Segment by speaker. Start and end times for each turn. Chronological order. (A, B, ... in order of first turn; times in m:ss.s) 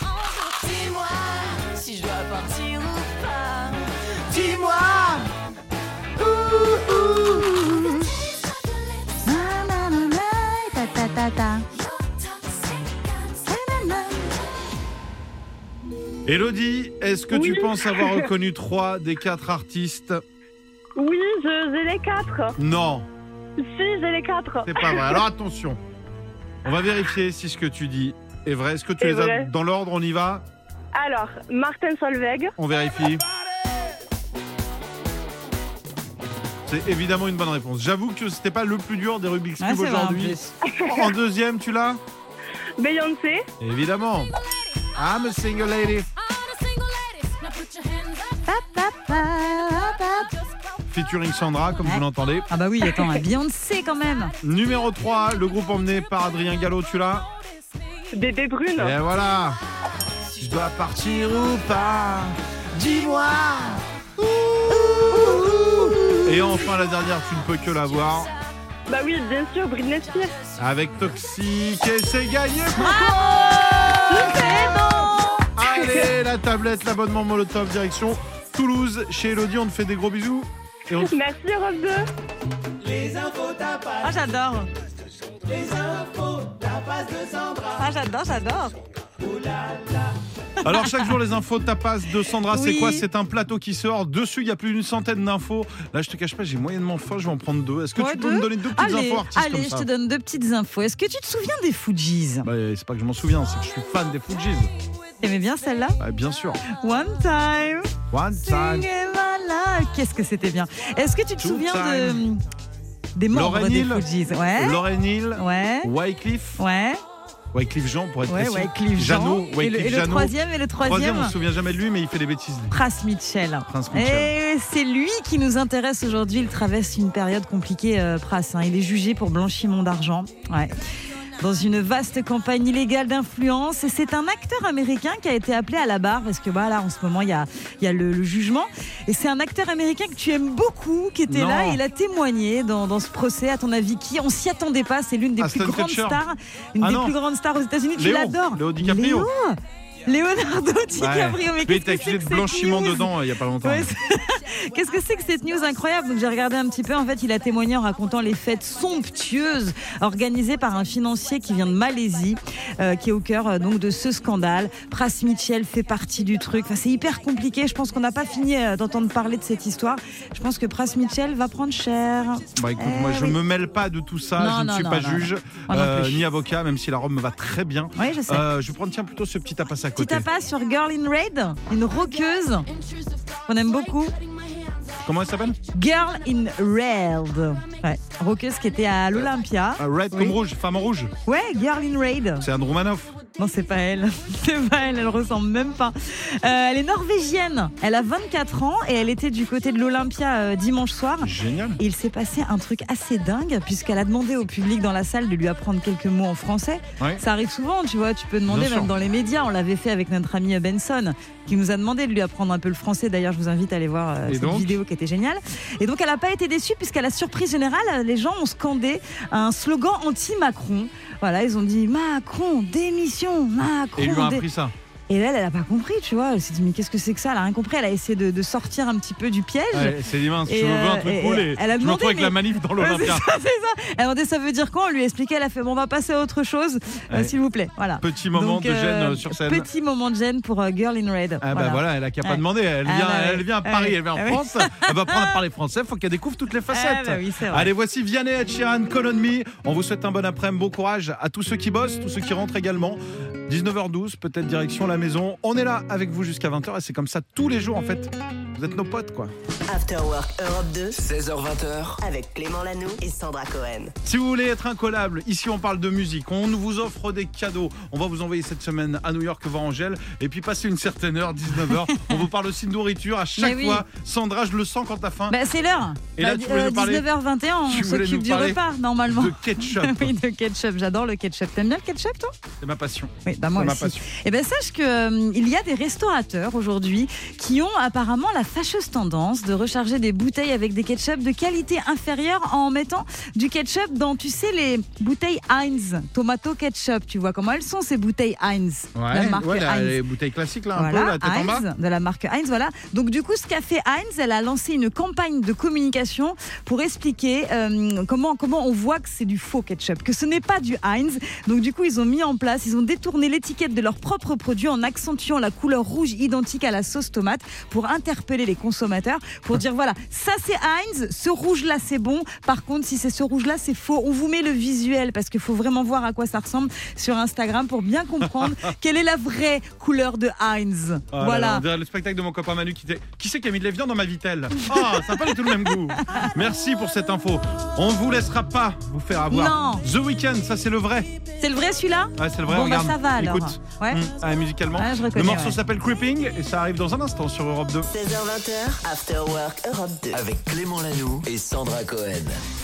0:00.5-0:05.2 A
0:04.8-0:05.1 B
0:06.2-0:08.1 B
0:09.2-0:11.6 B
0:13.4-0:14.2 B
0:16.2-0:20.2 C
0:17.3-0:18.3 D
0:21.0-0:22.5 D
0:22.6-0:23.1 C
0:23.6-0:25.2 D
0:24.6-0:25.8 C
0:26.6-0:30.4 C
0:29.0-0:29.5 D
0:30.9-0:32.5 D
0:32.6-0:33.2 C
0:36.7-0:42.0 C
0:39.6-0:40.5 B
0:40.7-0:41.1 D
0:42.8-0:43.4 D
0:43.6-0:44.3 C
0:44.9-0:46.1 C
0:48.4-0:50.3 B
0:50.9-0:52.5 C
0:51.8-0:54.3 B
0:54.4-0:57.3 C
0:58.1-0:59.0 D
0:58.8-0:59.6 C
1:00.4-1:05.6 C
1:05.1-1:06.4 B
1:06.2-1:08.3 C
1:08.9-1:10.4 D
1:10.6-1:14.5 C
1:12.8-1:15.4 B
1:14.1-1:15.0 D
1:15.6-1:21.1 C
1:15.8-1:16.1 D
1:21.0-1:22.0 D
1:24.0-1:24.7 B
1:27.7-1:28.7 B
1:30.6-1:39.9 C
1:30.7-1:31.1 B
1:32.5-1:33.0 B
1:38.0-1:42.4 B
1:42.4-1:44.7 C
1:45.2-1:46.0 B
1:46.0-1:46.6 C
1:46.6-1:52.4 B
1:48.1-1:48.8 C
1:51.4-1:52.2 C
1:53.2-1:54.8 B
1:53.3-1:54.0 C
1:54.6-1:56.6 C
1:55.4-1:55.9 B
1:56.6-1:57.0 B
1:57.5-2:02.8 C
1:58.3-2:01.3 B
2:02.7-2:10.7 B
2:03.7-2:04.3 C
2:11.4-2:33.1 B
2:21.3-2:21.8 C
2:25.4-2:26.2 C
2:26.8-2:27.1 C
2:28.0-2:29.3 C
2:31.0-2:33.9 C
2:33.6-2:53.4 B
2:52.5-3:00.2 C
2:54.4-2:56.2 B
2:58.0-2:58.4 B
3:00.0-3:02.7 B
3:03.5-3:04.1 B
3:05.0-3:05.6 C
3:05.7-3:10.4 B
3:09.1-3:11.1 C
3:11.2-3:12.4 B
3:12.4-3:13.2 C
3:13.3-3:44.4 B
3:21.2-3:21.8 C
3:28.5-3:28.9 C
3:34.2-3:34.8 C
3:44.0-3:44.7 C
3:45.1-4:05.4 B
3:49.7-3:53.2 C
3:58.0-3:59.6 C
4:01.4-4:19.3 C
4:06.7-4:07.7 B
4:19.7-4:21.0 E
4:21.0-4:22.0 F
4:22.0-4:23.9 E
4:24.0-4:35.4 C
4:33.4-4:33.8 B
4:35.3-4:42.3 B
4:36.2-4:37.1 C
4:37.7-4:40.1 C
4:42.6-4:44.0 C
4:43.2-5:00.0 B
4:59.0-5:01.6 C
5:00.7-5:31.6 B
5:31.1-5:41.1 C
5:34.7-5:36.3 B
5:39.3-5:39.8 B
5:41.4-5:44.0 B
5:42.2-5:47.9 C
5:44.8-5:45.6 B
5:47.9-5:50.2 E
5:50.1-5:52.4 F